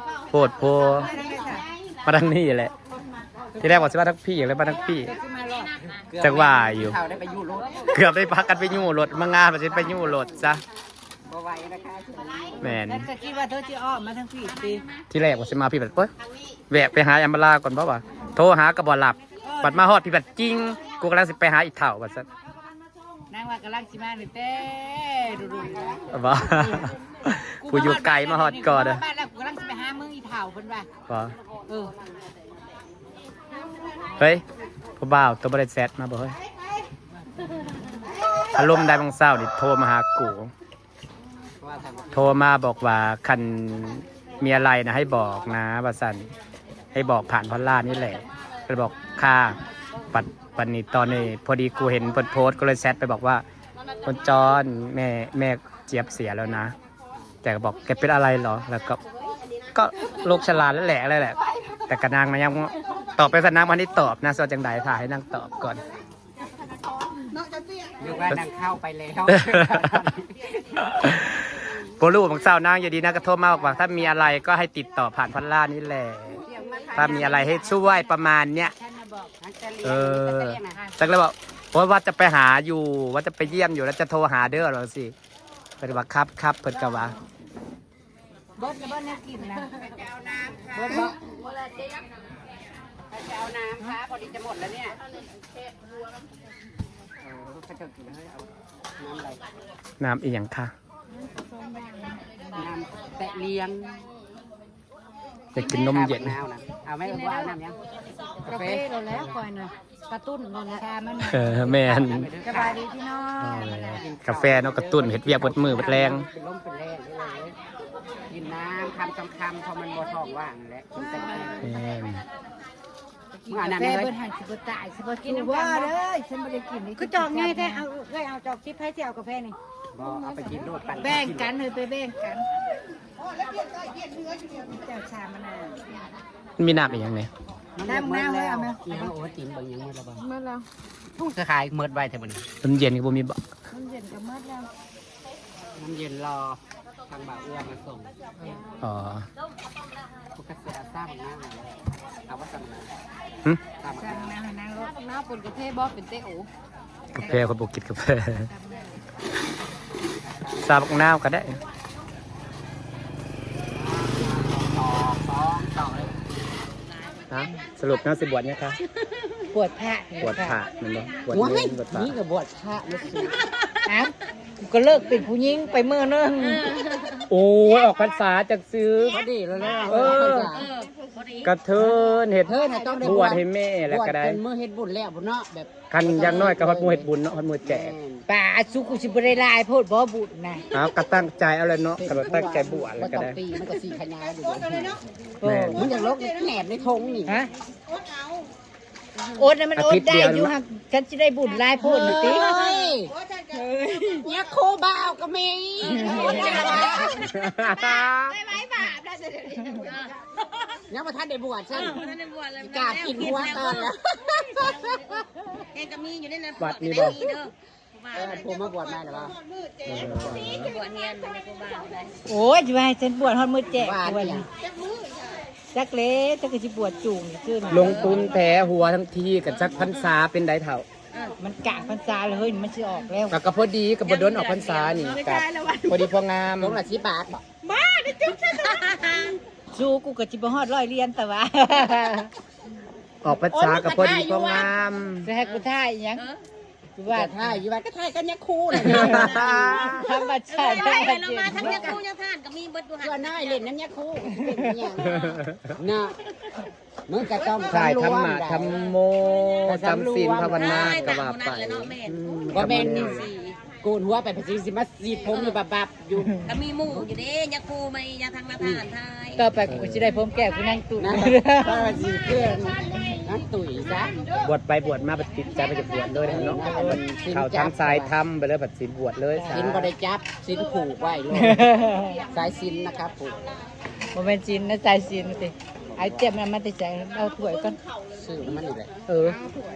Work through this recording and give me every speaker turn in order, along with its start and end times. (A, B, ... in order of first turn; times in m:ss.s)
0:00.3-0:01.1 A
0:01.0-0:01.6 B
0:02.0-0:02.7 A
0:03.6-0:05.1 A
0:05.0-0:05.9 B
0:06.1-0:08.0 C
0:06.2-0:07.0 A
0:07.9-0:10.6 A
0:11.3-0:12.8 C
0:12.6-0:13.1 A
0:12.8-0:14.9 B
0:15.1-0:16.1 A
0:16.7-0:22.3 A
0:19.5-0:19.7 B
0:23.3-0:26.9 B
0:26.1-0:29.0 A
0:27.6-0:30.9 B
0:31.1-0:31.4 A
0:31.7-0:31.9 B
0:34.2-0:34.4 A
0:35.0-0:36.4 A
0:38.5-0:40.5 A
0:41.6-0:42.4 C
0:42.1-0:46.3 A
0:46.9-0:49.6 A
0:50.1-0:53.4 A
0:54.0-0:56.8 A
0:57.4-0:59.0 A
0:59.7-1:05.8 A
1:08.0-1:10.6 C
1:10.8-1:18.7 A
1:16.4-1:17.4 C
1:17.0-1:19.3 B
1:19.4-1:20.8 C
1:19.8-1:25.1 A
1:25.8-1:27.2 A
1:28.6-1:29.7 B
1:29.7-1:31.1 C
1:30.7-1:31.2 B
1:33.1-1:35.0 C
1:37.2-1:39.4 C
1:40.0-1:40.7 A
1:41.4-1:42.2 B
1:42.5-1:44.1 C
1:45.5-1:46.4 A
1:45.6-1:47.8 C
1:48.4-1:49.3 C
1:48.4-1:51.7 B
1:51.2-1:52.3 A
1:51.6-1:52.8 C
1:52.4-1:54.0 B
1:53.4-1:56.3 A
1:53.9-1:57.6 C
1:58.3-2:01.8 C
2:01.6-2:02.2 A
2:03.4-2:09.6 B
2:03.5-2:04.1 C
2:05.3-2:05.9 D
2:09.9-2:11.5 C
2:11.0-2:12.5 B
2:14.6-2:15.9 B
2:16.6-2:17.3 A
2:17.8-2:20.3 C
2:17.8-2:19.1 B
2:20.3-2:20.6 B
2:21.2-2:22.5 C
2:22.6-2:23.4 A
2:23.7-2:24.7 B
2:25.8-2:28.4 C
2:28.8-2:29.3 A
2:30.4-2:33.0 C
2:33.8-2:34.4 C
2:33.9-2:36.4 B
2:37.1-2:38.5 A
2:38.6-2:38.8 B
2:40.2-2:40.8 C
2:40.6-2:41.6 A
2:43.7-2:46.2 C
2:47.3-2:48.8 A
2:49.5-2:50.6 B
2:50.2-2:52.2 A
2:51.3-2:53.5 C
2:53.9-2:56.7 B
2:56.4-2:57.2 D
2:57.3-2:59.2 A
2:59.1-3:00.7 C
2:59.8-3:00.5 A
3:00.5-3:01.5 D
3:01.4-3:04.4 A
3:01.8-3:07.1 C
3:05.9-3:08.0 A
3:07.6-3:08.2 C
3:08.3-3:10.7 B
3:10.7-3:13.4 A
3:12.0-3:15.0 C
3:15.4-3:15.8 B
3:15.4-3:15.9 A
3:15.7-3:17.3 C
3:17.3-3:17.5 B
3:19.3-3:22.5 B
3:19.8-3:20.5 A
3:21.8-3:23.2 C
3:23.5-3:24.1 B
3:24.1-3:27.2 C
3:26.0-3:26.8 B
3:27.1-3:28.4 A
3:27.6-3:29.9 B
3:29.8-3:30.2 D
3:30.9-3:32.1 C
3:31.7-3:33.9 D
3:32.6-3:35.2 C
3:35.7-3:38.4 D
3:36.6-3:37.2 A
3:38.1-3:39.4 C
3:39.8-3:40.7 A
3:40.1-3:42.2 D
3:42.3-3:44.5 B
3:43.8-3:44.5 C
3:45.7-3:48.3 B
3:47.7-3:48.2 C
3:47.7-3:50.9 A
3:49.6-3:50.0 C
3:51.4-3:53.4 B
3:53.3-3:56.8 A
3:54.0-3:55.5 D
3:56.6-3:57.4 C
3:58.3-3:59.4 D
3:59.7-4:02.3 B
4:03.2-4:05.3 A
4:03.3-4:04.7 C
4:05.2-4:06.3 B
4:05.4-4:06.4 D
4:07.0-4:07.6 B
4:07.1-4:10.0 C
4:08.7-4:10.1 A
4:09.0-4:12.0 B
4:10.5-4:13.6 D
4:11.6-4:12.0 C
4:13.0-4:16.2 C
4:15.2-4:15.7 A
4:17.1-4:18.9 C
4:17.7-4:23.3 A
4:19.6-4:21.2 C
4:20.5-4:22.2 D
4:22.5-4:27.1 C
4:22.9-4:23.6 D
4:25.3-4:25.6 D
4:26.4-4:29.5 D
4:28.6-4:28.9 C
4:29.4-4:31.9 B
4:29.7-4:30.2 A
4:31.0-4:34.2 C
4:34.4-4:39.9 A
4:36.2-4:38.2 C
4:39.4-4:39.7 B
4:39.5-4:43.4 C
4:41.3-4:42.2 B
4:44.1-4:47.8 B
4:45.9-4:46.4 C
4:48.1-4:48.9 C
4:49.1-4:49.4 B